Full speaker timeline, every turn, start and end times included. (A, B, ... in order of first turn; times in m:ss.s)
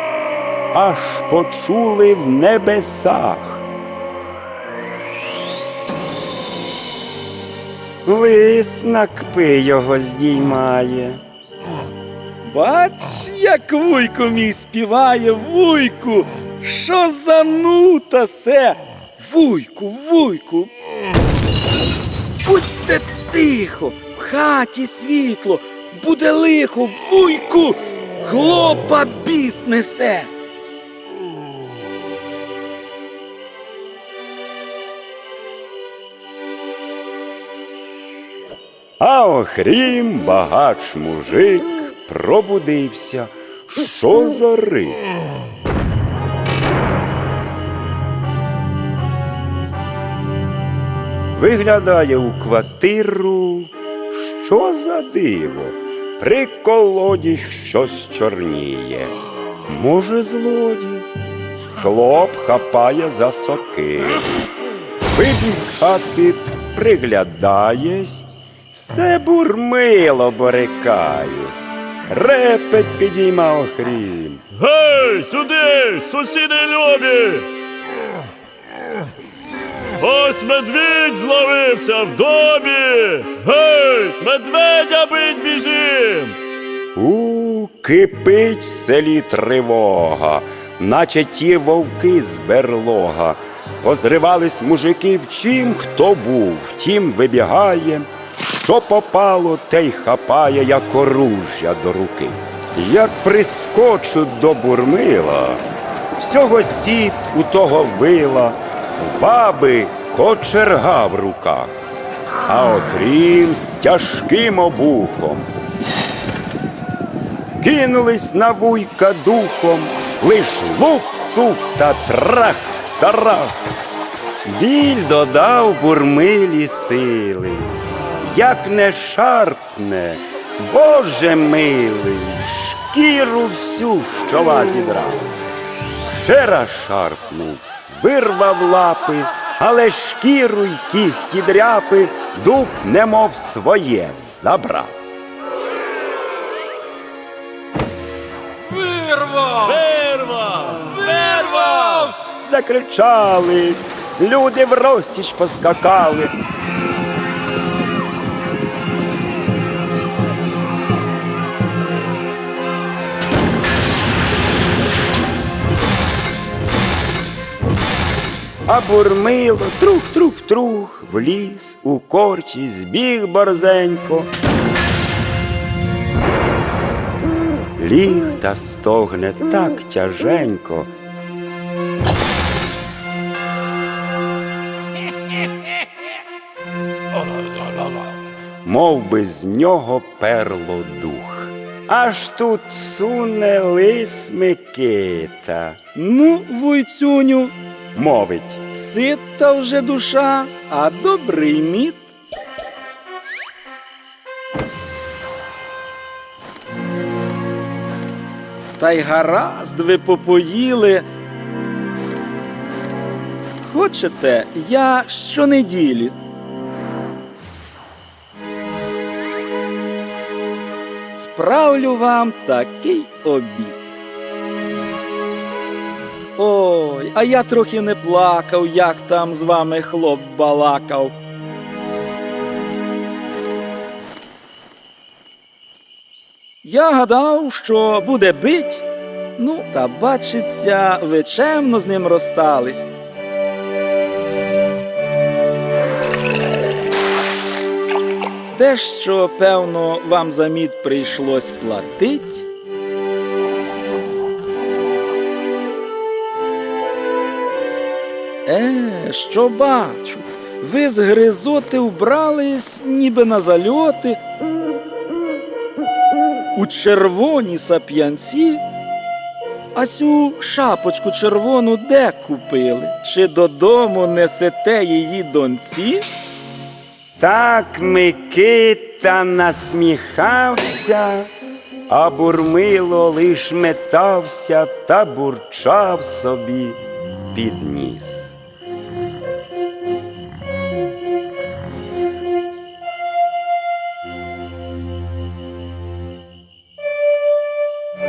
0:00.7-0:03.6 A
0:08.0-0:11.2 A
0:12.4-0:20.7 B
0:22.4-0:30.3 B
0:39.0-0:45.0 A
0:51.3-1:01.1 A
1:01.7-1:04.4 A
1:05.1-1:14.4 A
1:14.5-1:17.5 C
1:20.0-1:26.4 C
1:26.9-1:45.6 A
1:46.2-1:51.8 A
1:52.4-1:55.5 A
1:57.6-2:03.6 A
2:04.4-2:15.2 A
2:16.0-2:25.0 A
2:28.7-2:30.0 B
2:29.6-2:31.8 C
2:31.0-2:32.2 B
2:32.3-2:36.3 A
2:48.7-2:54.3 A
2:57.8-3:00.9 A
3:08.6-3:15.8 A
3:15.9-3:17.5 B
3:17.9-3:18.8 A
3:18.7-3:22.0 B
3:28.8-3:31.0 B
3:33.6-3:36.2 B
3:41.1-3:44.0 B
3:46.4-3:51.2 B
3:56.6-4:02.9 B
4:08.5-4:12.4 B
4:18.4-4:24.2 B
4:26.5-4:28.6 B
4:29.7-4:36.1 B
4:37.2-4:41.3 A
4:41.9-4:46.8 A
4:47.3-4:48.4 A